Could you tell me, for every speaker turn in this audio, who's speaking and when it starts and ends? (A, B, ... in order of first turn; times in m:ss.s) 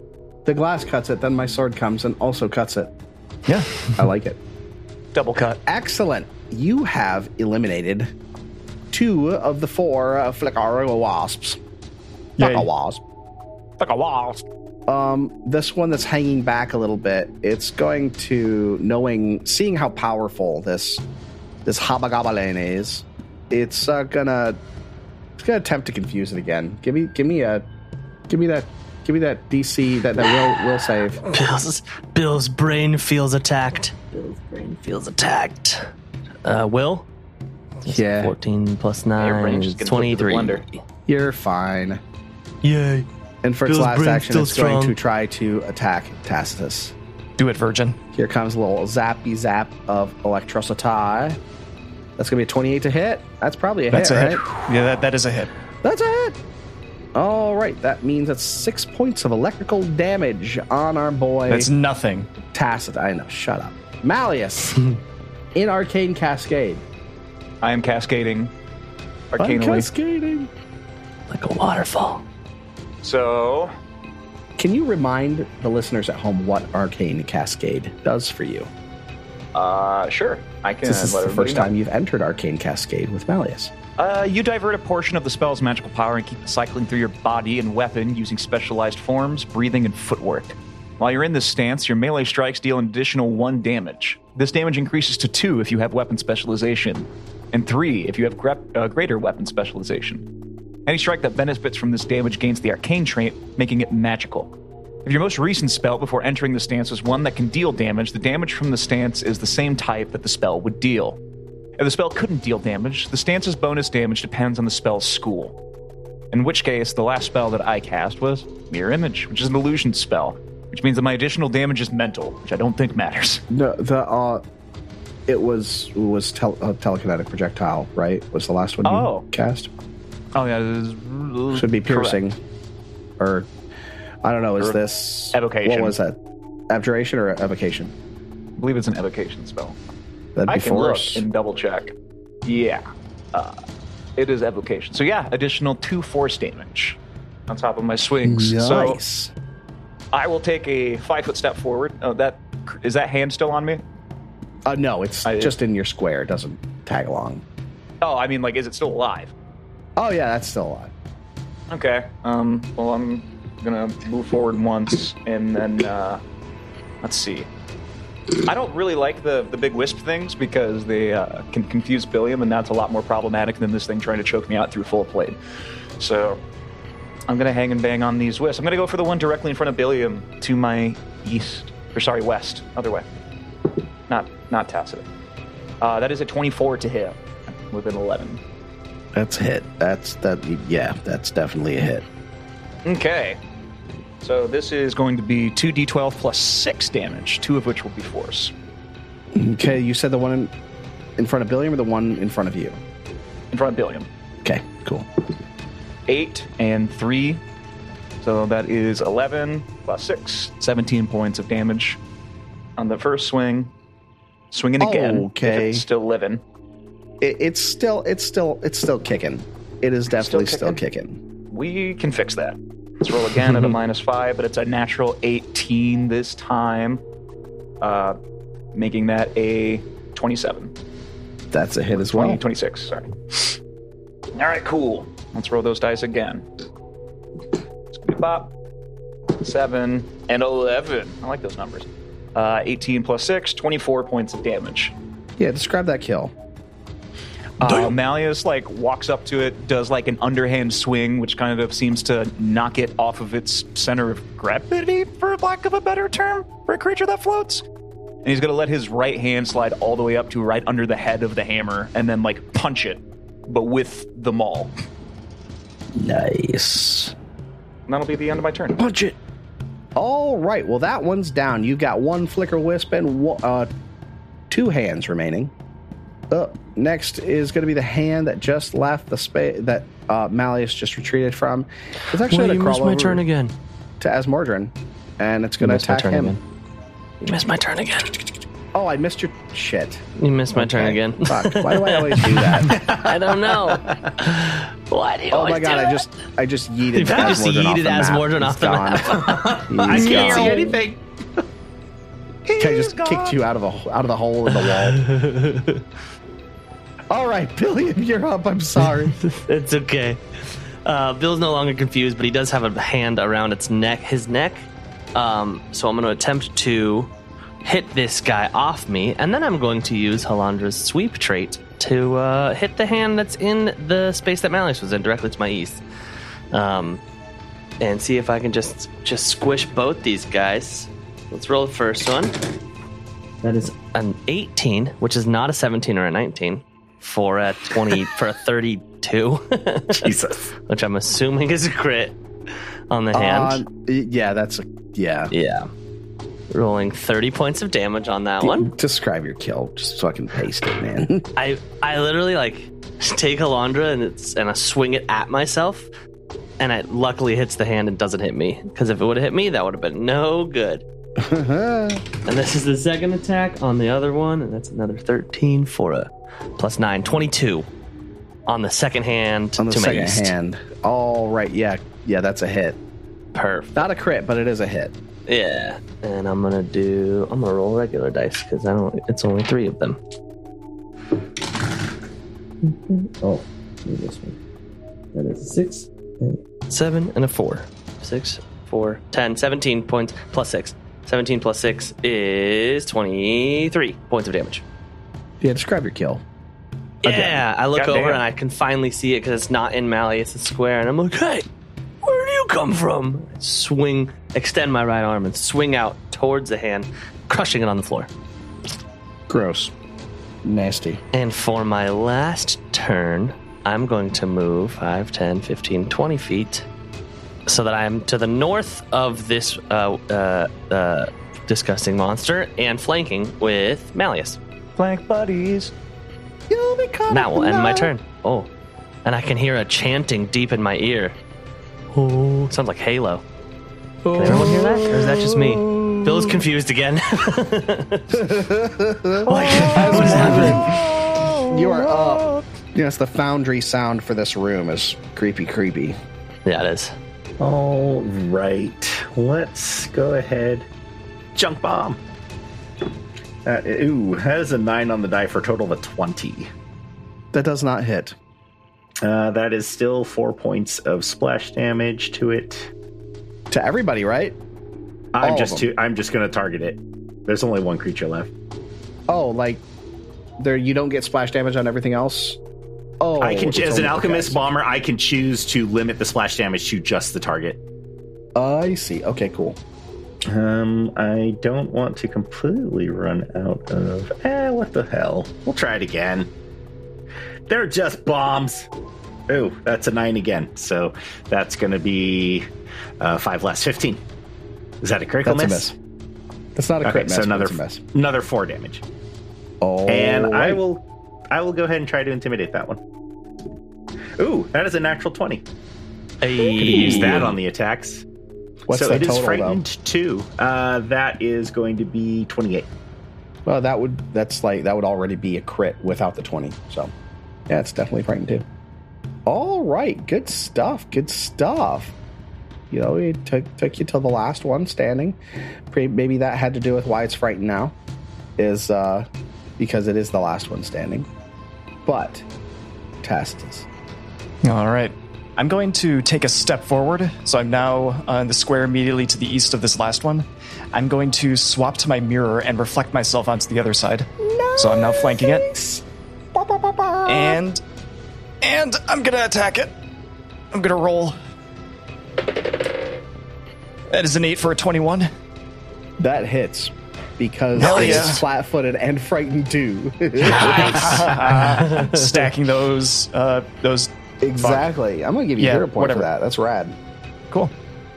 0:00.4-0:02.9 A
0:03.5-0:03.9 B
0:04.0-0:04.4 A
0:05.1-0:05.6 C
0:05.6-0:08.1 A
0:08.9-0:11.6 A
0:12.4-0:12.7 B
0:12.4-0:13.0 A
0:13.8-0:14.4 C
0:14.9-0:21.0 A
0:21.6-0:24.6 A
0:25.4-0:27.6 A
0:28.3-0:31.2 A
0:31.3-0:35.9 D
0:36.4-0:37.1 D
0:37.8-0:40.8 D
0:37.9-0:38.3 A
0:39.2-0:40.6 C
0:41.1-0:42.0 A
0:42.6-0:43.1 D
0:43.4-0:46.9 A
0:43.6-0:45.0 D
0:47.4-0:48.0 B
0:48.1-0:51.4 A
0:52.2-0:54.6 A
0:53.9-0:55.5 B
0:55.8-0:56.4 A
0:57.1-1:01.7 A
1:01.5-1:02.3 B
1:02.5-1:04.8 A
1:05.5-1:06.8 A
1:07.6-1:08.5 C
1:09.3-1:09.9 C
1:09.4-1:10.5 A
1:11.3-1:12.2 D
1:13.0-1:13.7 C
1:14.6-1:18.7 A
1:19.5-1:21.7 C
1:20.8-1:23.7 A
1:24.0-1:40.2 C
1:40.8-1:44.5 C
1:45.0-1:51.2 C
1:51.8-1:55.5 C
1:56.3-2:03.4 C
2:03.5-2:04.4 A
2:05.3-2:09.7 A
2:08.8-2:09.2 C
2:10.3-2:12.2 C
2:11.5-2:12.4 A
2:13.2-2:13.5 A
2:14.2-2:16.2 A
2:15.3-2:16.0 C
2:16.7-2:17.9 A
2:18.6-2:19.8 C
2:20.4-2:21.2 A
2:20.5-2:21.9 C
2:22.4-2:23.6 C
2:24.2-2:27.0 C
2:27.5-2:29.0 C
2:28.2-2:29.3 A
2:30.1-2:33.8 C
2:34.6-2:37.4 A
2:35.2-2:35.5 C
2:38.0-2:39.3 C
2:40.0-2:40.9 A
2:41.7-2:46.2 C
2:47.0-2:47.5 C
2:48.4-2:55.4 C
2:56.0-2:56.4 C
2:57.3-3:03.0 C
3:04.1-3:05.0 C
3:05.8-3:08.4 C
3:09.1-3:12.0 A
3:12.8-3:13.4 C
3:14.2-3:18.5 C
3:19.3-3:20.5 A
3:21.2-3:22.8 A
3:23.5-3:24.1 C
3:24.4-3:25.1 A
3:26.1-3:27.4 C
3:28.2-3:32.0 C
3:32.8-3:33.7 C
3:34.5-3:36.4 C
3:34.8-3:35.8 A
3:37.2-3:41.2 A
3:40.1-3:40.8 C
3:41.5-3:47.0 C
3:47.8-3:48.2 C
3:48.7-3:50.7 C
3:51.5-3:52.4 A
3:52.0-3:53.6 C
3:54.3-3:56.5 C
3:57.9-3:58.5 C
3:59.3-4:04.9 C
4:05.4-4:06.3 A
4:07.6-4:17.6 C
4:18.2-4:24.7 C
4:25.9-4:27.1 A
4:27.9-4:28.8 C
4:28.8-4:29.2 A
4:30.0-4:33.7 A
4:34.5-4:35.5 A
4:36.3-4:43.2 A
4:42.2-4:43.5 D
4:44.0-4:46.4 A
4:45.6-4:46.4 D
4:47.2-4:48.3 D
4:48.7-4:52.7 A
4:50.2-4:56.0 D
4:52.7-4:54.1 E
4:55.3-5:00.7 A
4:56.9-5:00.7 D
4:59.2-5:01.0 E
5:02.5-5:03.3 E
5:02.6-5:05.0 A
5:04.6-5:05.8 D
5:07.1-5:09.2 A
5:09.2-5:17.1 D
5:17.6-5:25.8 D
5:26.5-5:27.0 D
5:27.8-5:32.4 D
5:33.4-5:42.2 D
5:39.9-5:40.5 E
5:42.9-5:43.6 D
5:43.1-5:45.3 A
5:45.3-5:45.7 D
5:46.5-5:48.7 D
5:48.4-5:51.2 A
5:51.4-5:55.9 D
5:56.6-6:00.8 D
6:01.2-6:02.0 A
6:02.2-6:07.7 D
6:08.5-6:10.3 D
6:09.6-6:12.8 A
6:13.3-6:13.8 D
6:13.8-6:14.9 A
6:15.3-6:20.0 D
6:22.6-6:24.4 D
6:25.1-6:34.6 D
6:35.4-6:36.2 A
6:37.0-6:41.4 D
6:37.0-6:37.4 A
6:37.7-6:38.2 C
6:42.0-6:48.1 D
6:49.3-6:49.7 A
6:50.4-6:51.0 A
6:51.1-6:56.7 D
6:57.5-7:04.4 D
7:04.8-7:05.7 C
7:06.5-7:07.9 A
7:07.1-7:08.5 D
7:09.0-7:11.2 D
7:11.9-7:13.2 D
7:14.0-7:16.4 A
7:14.1-7:18.3 D
7:18.1-7:26.0 A
7:19.2-7:20.7 D
7:26.4-7:26.9 D
7:27.4-7:30.7 E
7:31.3-7:32.0 E
7:33.4-7:36.5 E
7:37.3-7:38.2 A
7:39.0-7:42.7 E
7:43.5-7:44.4 A
7:45.1-7:48.3 E
7:45.2-7:45.7 A
7:49.1-7:49.6 A
7:50.4-7:52.4 A
7:53.0-7:54.4 A
7:53.2-7:57.6 E
7:58.4-7:59.6 A
8:00.3-8:06.3 E
8:07.5-8:08.7 E
8:09.3-8:12.5 E
8:13.0-8:14.0 E
8:14.8-8:15.7 E
8:15.2-8:15.7 A
8:16.6-8:17.8 A
8:16.8-8:18.8 E
8:19.6-8:20.6 A
8:19.9-8:22.8 E
8:24.2-8:25.4 E
8:26.2-8:27.4 D
8:26.5-8:27.3 A
8:26.6-8:28.0 E
8:28.7-8:29.6 A
8:28.7-8:32.7 E
8:33.4-8:36.9 A
8:37.5-8:38.4 A
8:39.2-8:41.9 A
8:42.7-8:47.7 A
8:48.4-8:49.1 A
8:49.6-8:51.1 A
8:51.8-8:52.2 A
8:53.0-8:53.7 A
8:54.4-9:05.5 B
9:04.2-9:07.4 A
9:07.0-9:07.6 B
9:08.4-9:09.7 B
9:10.5-9:11.2 B
9:13.9-9:15.1 B
9:16.0-9:21.2 A
9:17.6-9:18.2 B
9:20.2-9:24.7 B
9:24.2-9:26.8 A
9:25.4-9:26.1 B